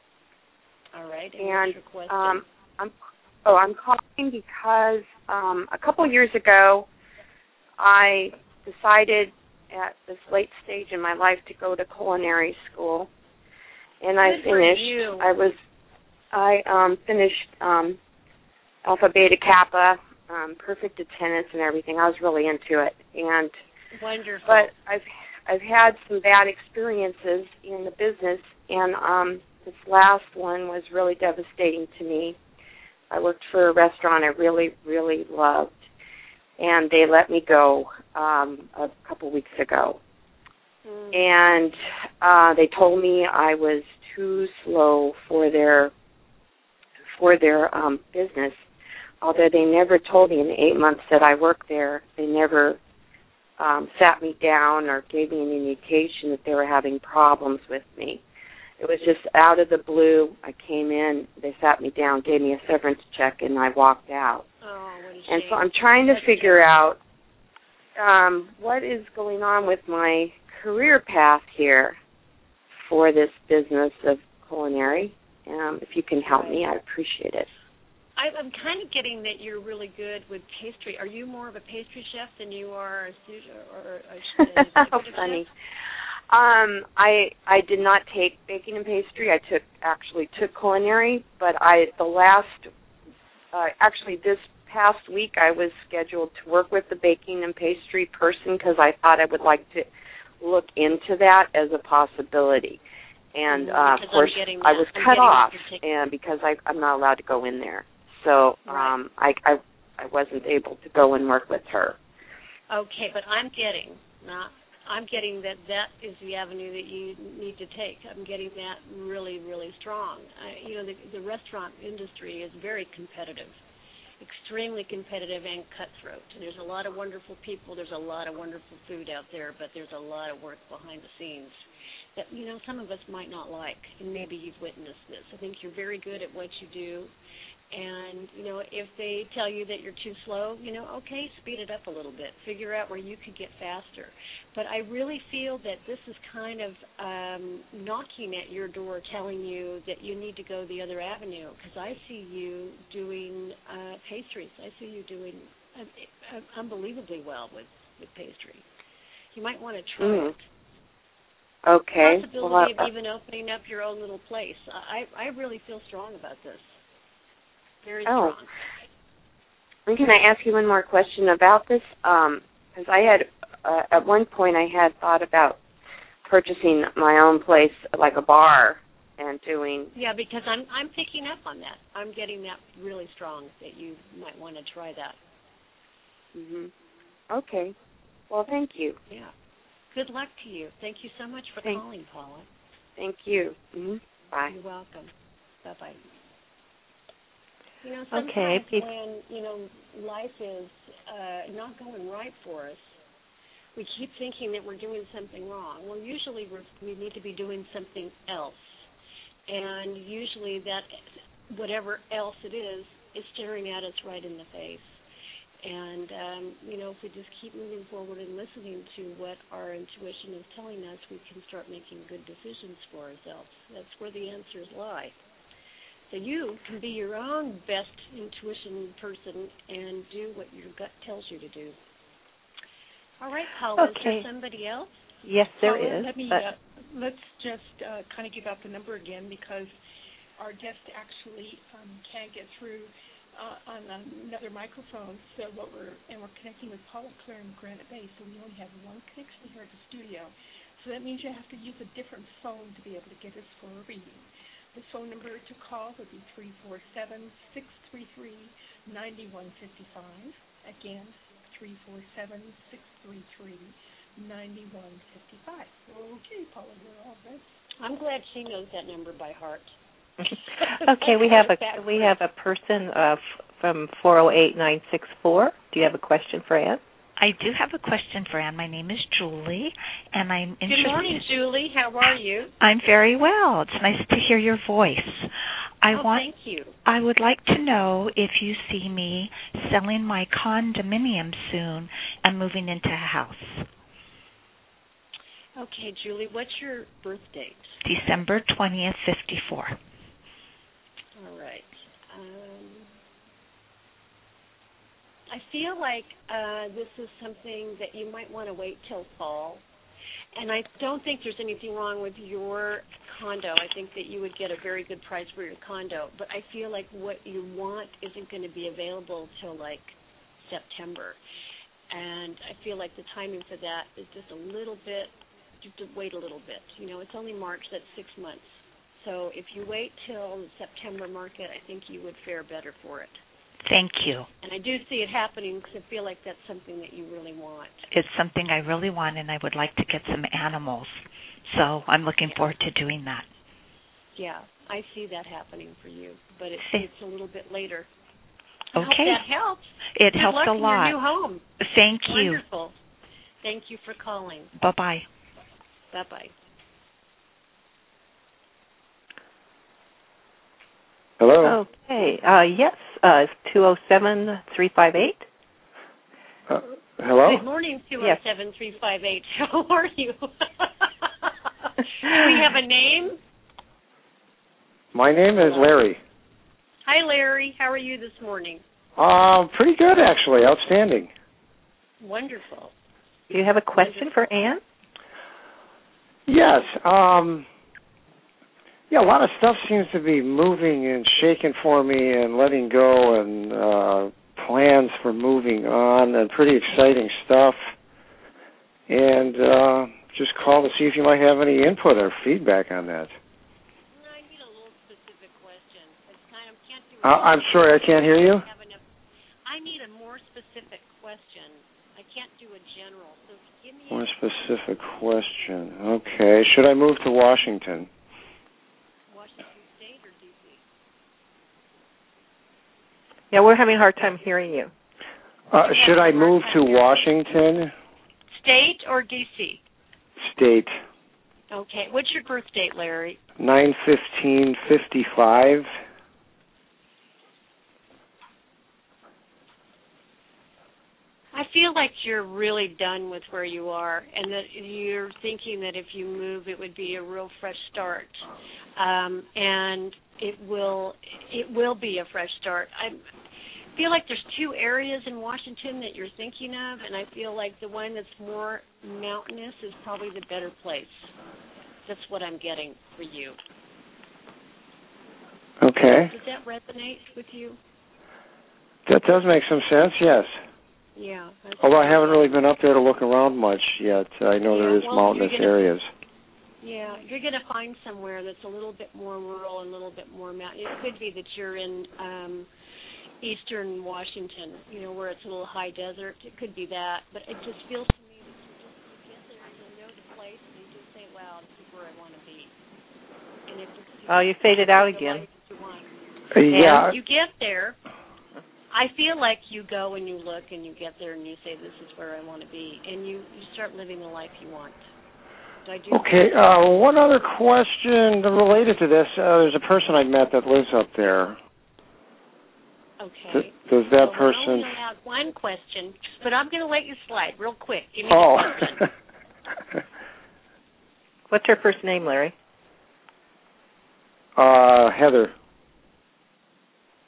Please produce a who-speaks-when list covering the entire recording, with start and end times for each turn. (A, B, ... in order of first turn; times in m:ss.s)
0:00.9-0:02.4 A
0:01.4-0:02.9 B
0:03.4-0:06.9 B
0:07.8-0:13.1 B
0:14.0-0:15.6 B
0:14.2-0:15.5 A
0:16.3-0:18.0 B
0:18.8-0:23.5 B
0:23.9-0:24.7 A
0:24.5-0:32.4 B
0:33.1-0:35.9 B
0:36.6-0:40.0 B
0:40.8-0:41.2 A
0:41.1-0:45.9 B
0:47.2-0:48.6 B
0:49.2-0:52.8 B
0:53.6-0:58.2 B
0:58.8-1:04.5 B
1:04.6-1:06.7 A
1:05.3-1:07.0 B
1:08.0-1:12.0 B
1:12.8-1:17.5 B
1:16.2-1:16.6 A
1:18.2-1:25.5 A
1:24.8-1:25.5 B
1:26.3-1:32.7 B
1:33.5-1:39.9 B
1:40.4-1:42.8 B
1:43.3-1:52.0 B
1:43.5-1:45.8 A
1:48.7-1:48.9 A
1:52.7-2:03.6 A
2:04.2-2:11.6 A
2:12.2-2:17.1 A
2:17.7-2:38.6 A
2:39.3-2:40.5 A
2:40.0-2:40.3 B
2:41.7-2:42.9 B
2:42.0-2:46.8 A
2:47.8-2:48.5 A
2:48.1-2:48.4 B
2:49.9-2:55.6 B
2:56.3-2:59.9 B
3:00.0-3:05.2 A
3:06.4-3:06.7 B
3:07.3-3:07.7 B
3:08.3-3:09.0 B
3:09.9-3:12.5 A
3:13.0-3:14.6 B
3:14.5-3:15.1 A
3:15.6-3:16.0 A
3:17.8-3:23.0 A
3:18.1-3:18.9 C
3:23.8-3:28.9 A
3:29.5-3:35.0 A
3:35.6-3:45.2 A
3:46.1-3:51.8 A
3:53.2-3:55.0 A
3:53.8-3:54.3 C
3:55.2-3:56.4 C
3:55.6-3:59.7 D
4:00.4-4:27.4 D
4:27.8-4:29.8 A
4:30.2-4:36.8 C
4:30.5-4:32.2 A
4:37.2-4:41.3 E
4:40.7-4:42.5 A
4:42.6-4:45.3 E
4:45.8-4:46.3 E
4:45.9-4:46.8 A
4:46.8-4:53.7 E
4:55.6-4:57.8 A
4:57.8-4:59.8 E
5:01.2-5:02.9 A
5:05.3-5:09.6 A
5:10.4-5:21.2 A
5:21.9-5:33.2 A
5:33.7-5:34.3 E
5:34.4-5:37.9 A
5:37.9-5:43.3 E
5:44.2-5:47.9 A
5:46.6-5:46.9 E
5:48.7-5:51.5 A
5:48.8-5:49.2 E
5:50.0-5:51.0 E
5:51.6-5:52.4 E
5:52.0-5:52.8 A
5:53.4-5:54.5 A
5:54.6-5:55.1 E
5:55.9-5:56.3 A
6:01.2-6:01.6 F
6:01.4-6:05.3 C
6:06.5-6:07.4 F
6:07.2-6:13.2 A
6:14.9-6:16.0 F
6:15.4-6:15.7 A
6:16.8-6:18.6 A
6:19.0-6:21.1 F
6:22.0-6:22.7 A
6:23.3-6:24.6 C
6:23.7-6:24.3 A
6:26.3-6:27.5 F
6:28.9-6:37.7 F
6:38.9-6:43.2 F
6:43.9-6:48.8 A
6:47.0-6:48.4 F
6:49.5-6:54.2 A
6:53.9-6:57.9 F
6:59.1-7:00.6 A
7:03.3-7:04.7 C
7:05.5-7:07.7 F
7:05.7-7:07.1 A
7:08.3-7:09.6 A
7:10.2-7:10.7 F
7:11.5-7:13.2 A
7:13.4-7:15.7 F
7:21.3-7:28.2 A
7:28.8-7:33.0 A
7:33.8-7:41.1 A
7:41.8-7:43.4 A
7:45.6-7:46.1 F
7:45.8-7:47.6 A
7:48.9-7:50.4 F
7:51.0-7:52.4 A
7:51.6-7:55.9 F
7:54.5-7:55.7 A
7:56.6-8:02.5 A
8:03.2-8:12.5 A
8:13.5-8:15.9 A
8:14.1-8:15.3 C
8:16.3-8:16.9 F
8:16.5-8:16.9 C
8:16.5-8:17.8 A
8:18.7-8:24.8 A
8:25.6-8:26.3 A
8:25.9-8:31.4 F
8:33.0-8:38.8 A
8:33.3-8:34.8 F
8:38.1-8:38.9 F
8:41.3-8:42.3 C
8:44.4-8:45.3 F